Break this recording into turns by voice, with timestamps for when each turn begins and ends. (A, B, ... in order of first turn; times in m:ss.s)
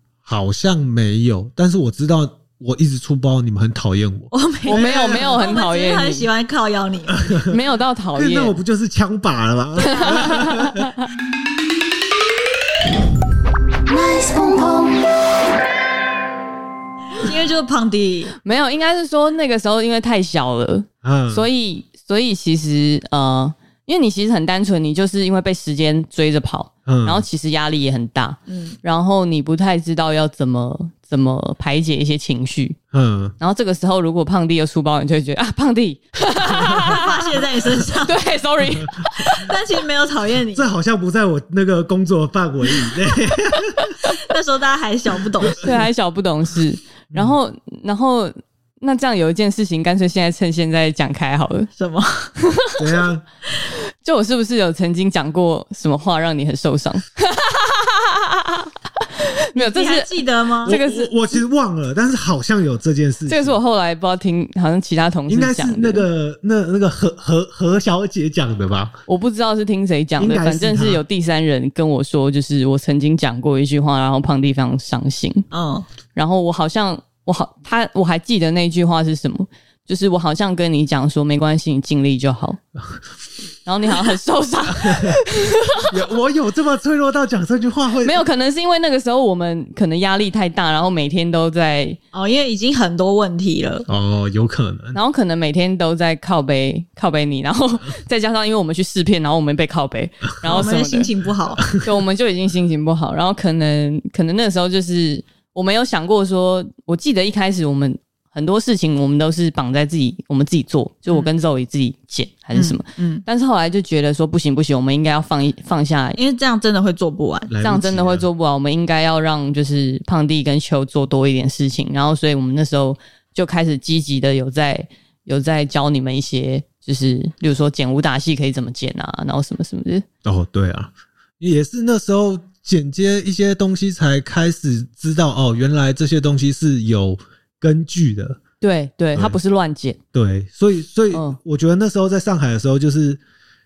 0:00.2-0:05.4 A
0:04.3-0:07.4 B
0:04.7-0:06.3 C
0:07.1-0:07.6 A
0:07.5-0:08.6 C
0:08.2-0:10.9 A
0:09.8-0:10.4 B
0:09.8-0:11.0 C
0:13.9-0:15.0 B
0:17.2-0:18.3 B
0:18.4-0:32.8 C
0:21.0-0:21.5 A
0:26.8-0:27.2 A
0:28.5-0:28.8 B
0:32.9-0:33.3 A
0:33.4-0:37.2 C
0:36.8-0:38.2 B
0:38.0-0:39.5 C
0:39.2-0:40.7 B
0:40.5-0:43.9 A
0:43.8-0:44.2 C
0:44.2-0:45.8 B
0:45.6-0:51.7 C
0:47.1-0:47.4 A
0:51.8-0:52.3 B
0:52.4-0:52.8 C
0:52.8-0:53.2 A
0:54.0-1:01.1 C
0:59.5-1:00.8 B
1:00.6-1:03.6 A
1:03.3-1:06.0 C
1:05.3-1:09.0 A
1:09.1-1:15.4 C
1:10.2-1:11.0 A
1:15.5-1:15.8 B
1:16.1-1:22.6 C
1:23.6-1:25.9 C
1:24.8-1:25.2 A
1:25.9-1:28.2 A
1:28.0-1:32.0 C
1:32.1-1:33.9 B
1:33.9-1:35.0 A
1:34.9-1:41.1 C
1:40.4-1:41.6 B
1:41.6-1:41.8 A
1:41.8-1:56.2 C
1:52.5-1:53.2 B
1:56.2-1:57.5 B
1:57.5-1:58.2 A
1:57.6-2:10.0 C
2:10.2-2:18.4 A
2:18.6-2:20.0 C
2:20.1-2:23.2 A
2:21.1-2:21.4 C